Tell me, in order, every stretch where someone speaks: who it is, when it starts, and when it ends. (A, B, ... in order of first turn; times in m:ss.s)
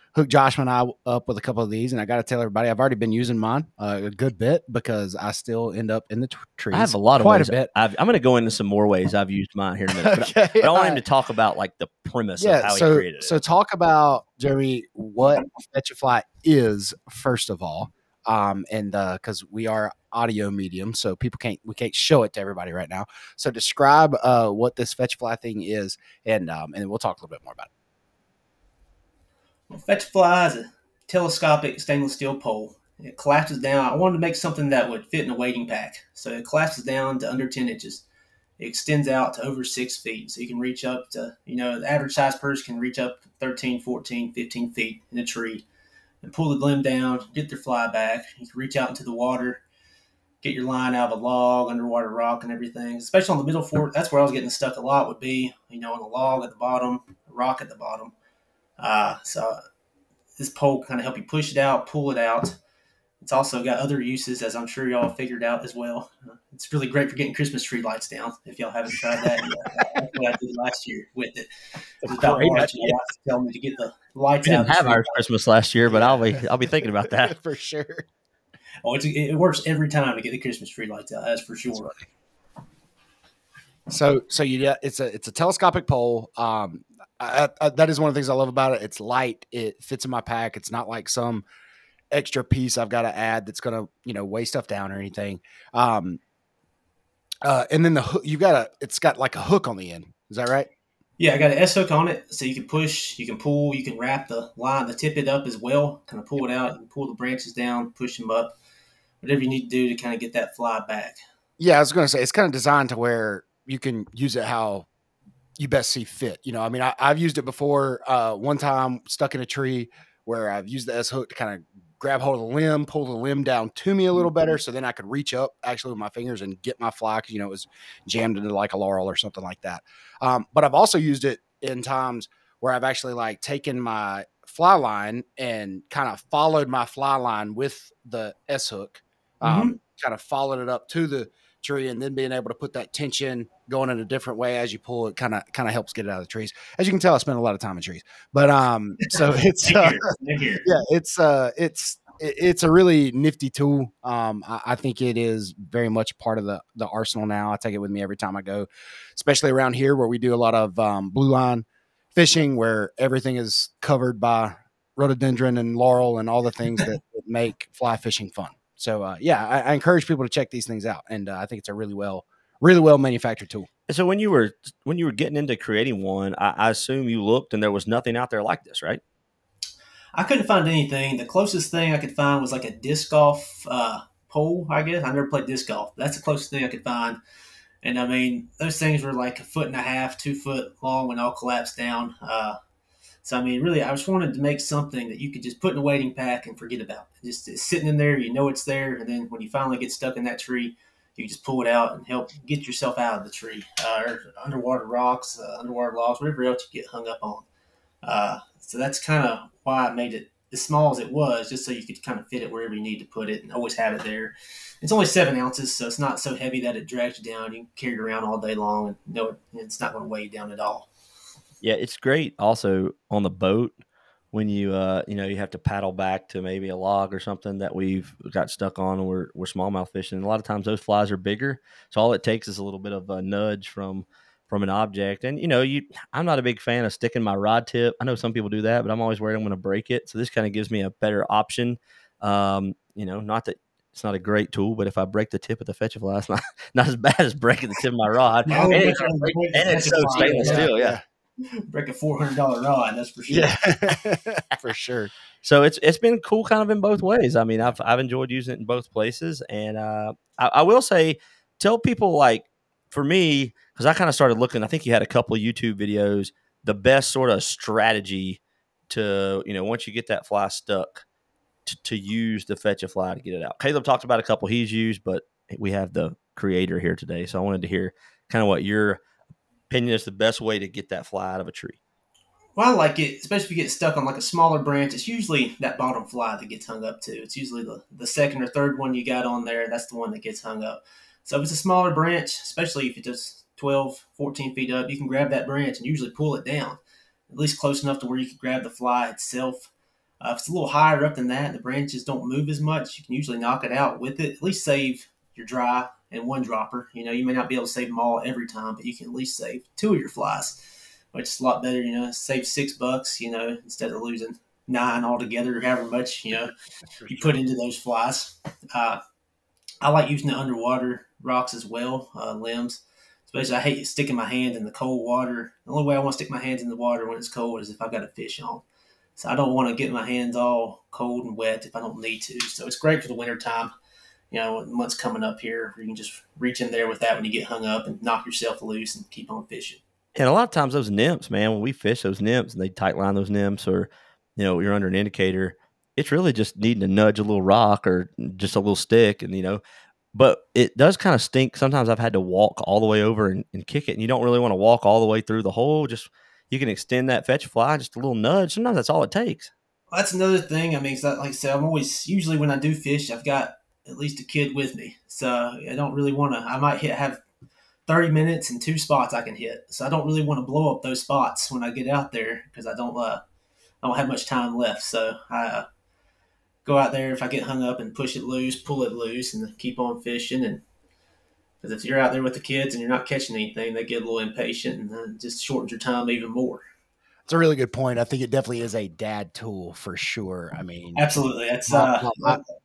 0:00.1-0:07.7 A
0:06.7-0:13.3 B
0:10.0-0:11.0 A
0:12.4-0:27.7 A
0:29.7-0:38.0 C
0:38.6-0:45.6 C
0:46.2-0:49.6 C
0:50.4-0:58.1 C
0:58.8-0:59.6 C
1:00.4-1:02.6 C
1:03.2-1:11.5 C
1:12.0-1:15.1 C
1:12.1-1:13.0 A
1:14.4-1:17.3 B
1:15.9-1:16.4 A
1:17.2-1:18.0 A
1:18.8-1:22.0 C
1:23.9-1:31.4 A
1:32.1-1:36.2 A
1:37.4-1:40.7 A
1:41.2-1:48.5 C
1:49.2-1:51.2 C
1:51.6-1:54.9 A
1:55.6-2:30.0 A
2:19.4-2:19.7 C
2:29.1-2:30.6 C
2:30.6-2:53.7 A
2:53.9-2:59.0 B
3:00.1-3:07.2 C
3:07.8-3:12.6 C
3:13.2-3:27.4 C
3:28.0-3:40.9 C
3:41.6-3:43.7 B
3:44.3-4:09.0 B
4:08.5-4:11.0 A
4:08.5-4:10.7 C
4:09.5-4:11.0 B
4:11.7-4:13.5 C
4:13.3-4:15.1 A
4:15.4-4:31.0 B
4:31.6-4:39.0 B
4:39.7-4:41.8 B
4:42.6-5:10.6 C
5:11.1-5:16.5 C
5:17.1-5:19.0 C
5:19.8-5:28.6 C
5:29.2-5:33.7 C
5:34.3-5:39.8 C
5:40.2-5:49.6 B
5:50.1-5:59.5 B
5:59.9-6:07.2 C
6:07.9-6:13.2 C
6:13.8-6:15.6 C
6:16.6-6:20.6 C
6:21.6-6:26.6 C
6:27.3-6:31.1 A
6:31.0-6:32.4 C
6:31.7-6:32.4 A